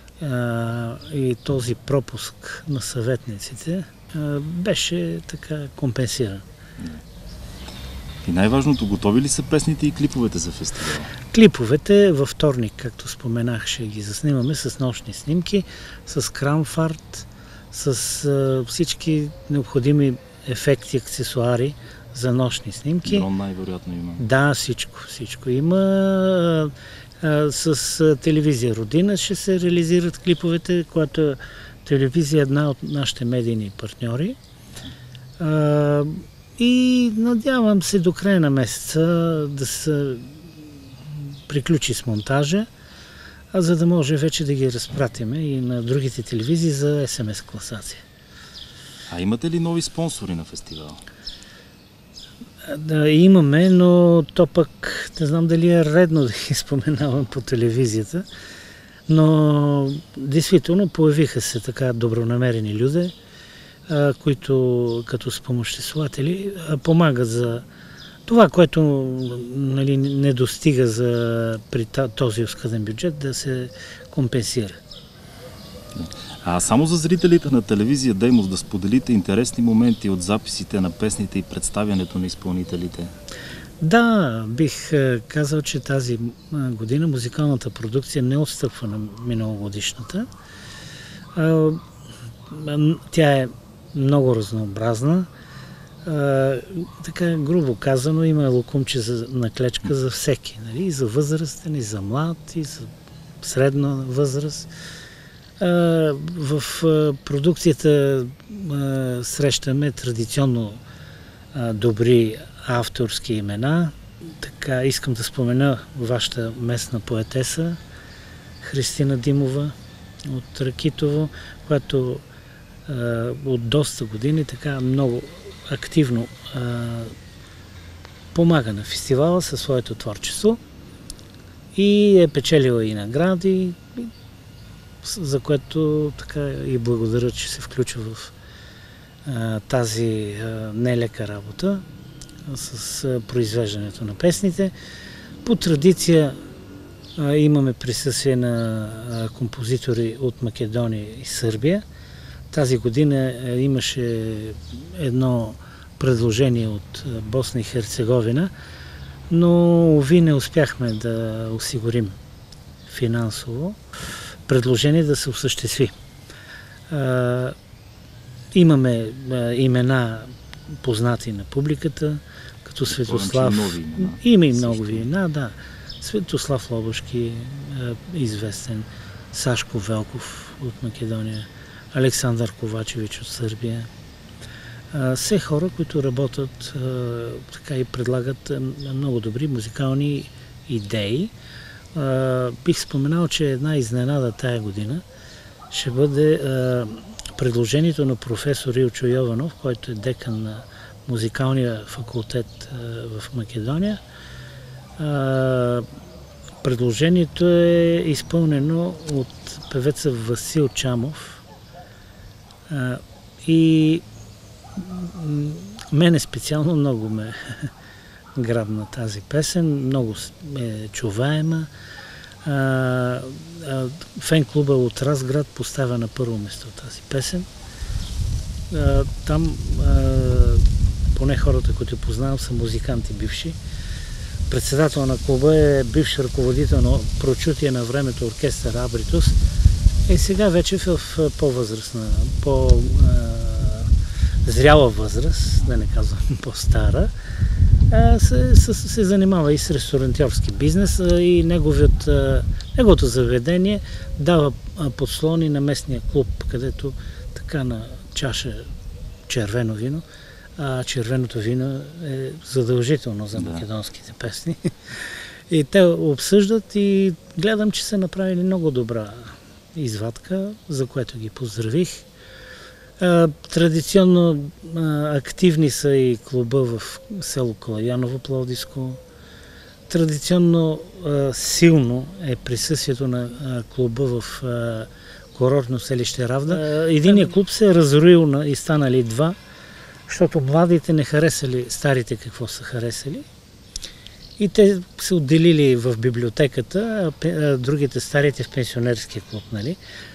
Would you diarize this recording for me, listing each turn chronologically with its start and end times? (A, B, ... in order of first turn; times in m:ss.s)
0:00.2-0:06.4 A
0:08.2-0:11.1 B
0:11.3-0:23.3 A
0:23.0-0:24.2 B
0:24.2-0:34.4 A
0:35.4-0:40.4 A
0:41.2-0:42.7 A
0:43.5-0:48.0 A
0:49.1-0:51.0 B
0:52.6-0:58.2 A
0:59.1-1:03.1 A
1:03.9-1:07.6 A
1:08.3-1:14.8 A
1:15.9-1:23.1 B
1:23.8-1:30.3 A
1:31.4-1:31.8 A
1:32.5-1:35.3 A
1:36.0-1:44.7 A
1:45.6-1:50.8 A
1:51.5-1:57.8 A
1:58.6-2:02.2 A
2:02.9-2:07.2 A
2:08.3-2:10.6 A
2:11.7-2:14.1 A
2:15.0-2:18.3 A
2:19.2-2:21.8 A
2:22.5-2:24.7 A
2:25.4-2:26.4 A
2:27.2-2:31.8 A
2:32.5-2:38.5 A
2:39.3-2:42.2 A
2:42.9-2:43.8 A
2:44.5-2:46.0 A
2:46.9-2:47.6 A
2:48.5-3:03.9 A
2:52.9-2:55.1 B
3:04.9-3:11.3 A
3:11.9-3:15.0 A
3:15.7-3:24.0 A
3:25.0-3:25.9 A
3:26.6-3:31.4 A
3:32.7-3:34.0 A
3:34.8-3:37.7 A
3:38.4-3:41.7 A
3:42.4-3:47.5 A
3:48.7-3:53.6 A
3:54.5-3:59.4 A
4:00.1-4:03.9 A
4:04.4-4:07.1 A
4:07.9-4:18.7 A
4:19.3-4:20.0 A
4:20.6-4:32.1 A
4:23.3-4:23.6 B
4:33.0-4:39.0 A
4:39.9-4:49.4 A
4:50.1-4:53.3 A
4:54.4-4:59.8 A